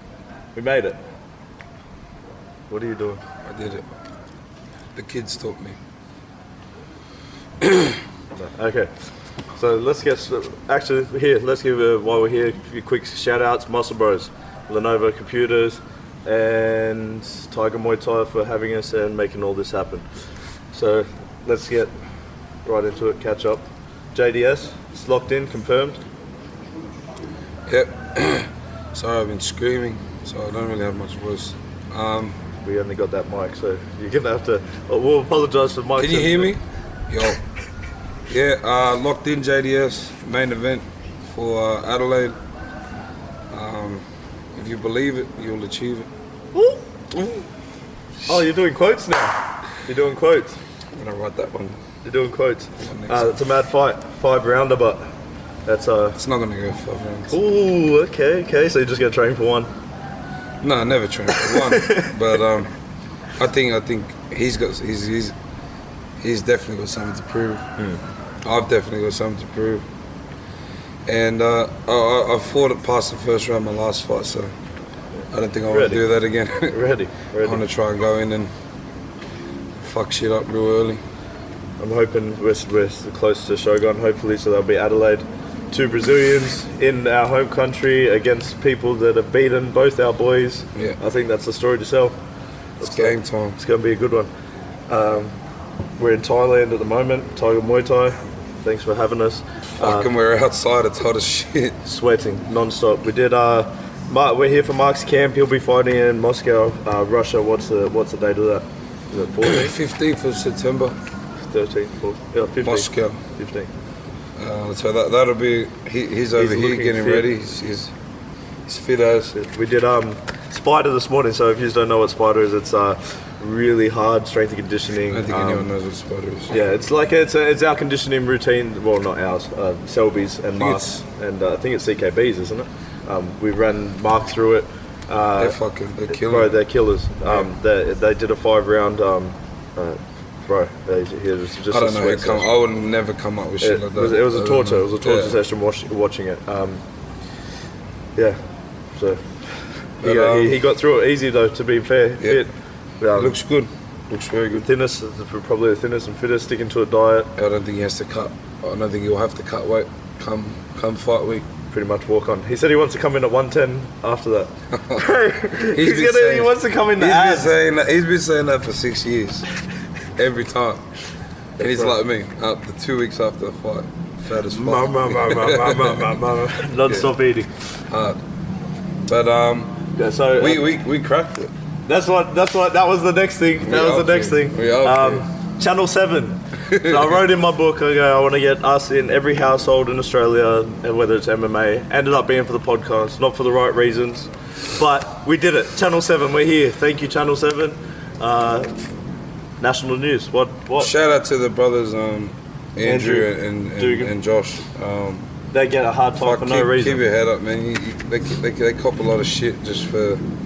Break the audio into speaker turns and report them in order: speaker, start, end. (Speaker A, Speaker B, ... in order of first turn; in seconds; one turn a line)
Speaker A: 0.5-1.0
Speaker A: 2.7-3.2
Speaker B: 3.4-3.8
Speaker B: 4.9-5.8
Speaker B: 7.6-8.0
Speaker A: 8.3-8.9
Speaker A: 9.6-20.1
Speaker A: 20.7-21.9
Speaker A: 22.6-26.0
Speaker B: 27.7-32.4
Speaker A: 32.6-36.5
Speaker B: 36.0-37.4
Speaker B: 38.3-42.4
Speaker B: 43.5-44.0
Speaker B: 44.5-46.1
Speaker A: 46.5-47.4
Speaker A: 48.3-50.6
Speaker B: 50.9-51.8
Speaker A: 52.0-55.1
Speaker B: 52.8-53.3
Speaker A: 55.6-56.2
Speaker B: 56.1-57.4
Speaker A: 57.3-59.7
Speaker B: 60.6-62.7
Speaker A: 61.4-62.1
Speaker B: 63.4-65.3
Speaker B: 66.2-67.7
Speaker B: 68.4-69.8
Speaker B: 71.0-74.5
Speaker B: 75.3-76.8
Speaker A: 75.7-76.0
Speaker A: 76.7-77.6
Speaker B: 77.4-78.5
Speaker B: 79.8-81.0
Speaker A: 81.8-92.2
Speaker A: 92.8-94.3
Speaker B: 92.8-93.6
Speaker A: 94.9-95.3
Speaker A: 96.0-100.1
Speaker B: 99.8-101.8
Speaker A: 101.8-109.7
Speaker B: 109.4-111.0
Speaker A: 111.4-113.7
Speaker B: 112.6-113.2
Speaker B: 114.4-117.9
Speaker A: 116.4-117.2
Speaker B: 118.7-119.3
Speaker A: 119.3-125.7
Speaker B: 125.1-126.6
Speaker A: 126.5-135.6
Speaker B: 130.6-130.9
Speaker B: 135.3-136.6
Speaker A: 136.2-142.5
Speaker B: 141.7-145.4
Speaker A: 143.6-146.8
Speaker A: 148.9-153.3
Speaker B: 150.0-150.6
Speaker B: 153.1-154.7
Speaker A: 154.5-157.3
Speaker B: 157.3-161.5
Speaker A: 161.7-167.5
Speaker B: 165.7-169.4
Speaker B: 170.2-170.8
Speaker A: 171.6-171.9
Speaker B: 171.6-176.2
Speaker A: 174.5-177.5
Speaker B: 176.8-177.1
Speaker B: 177.9-178.2
Speaker B: 179.1-179.8
Speaker A: 179.9-180.7
Speaker B: 180.3-181.5
Speaker A: 181.8-198.7
Speaker B: 183.6-185.3
Speaker B: 186.7-187.2
Speaker A: 199.6-200.9
Speaker B: 200.8-205.3
Speaker A: 202.8-204.1
Speaker A: 205.5-207.0
Speaker B: 206.1-210.2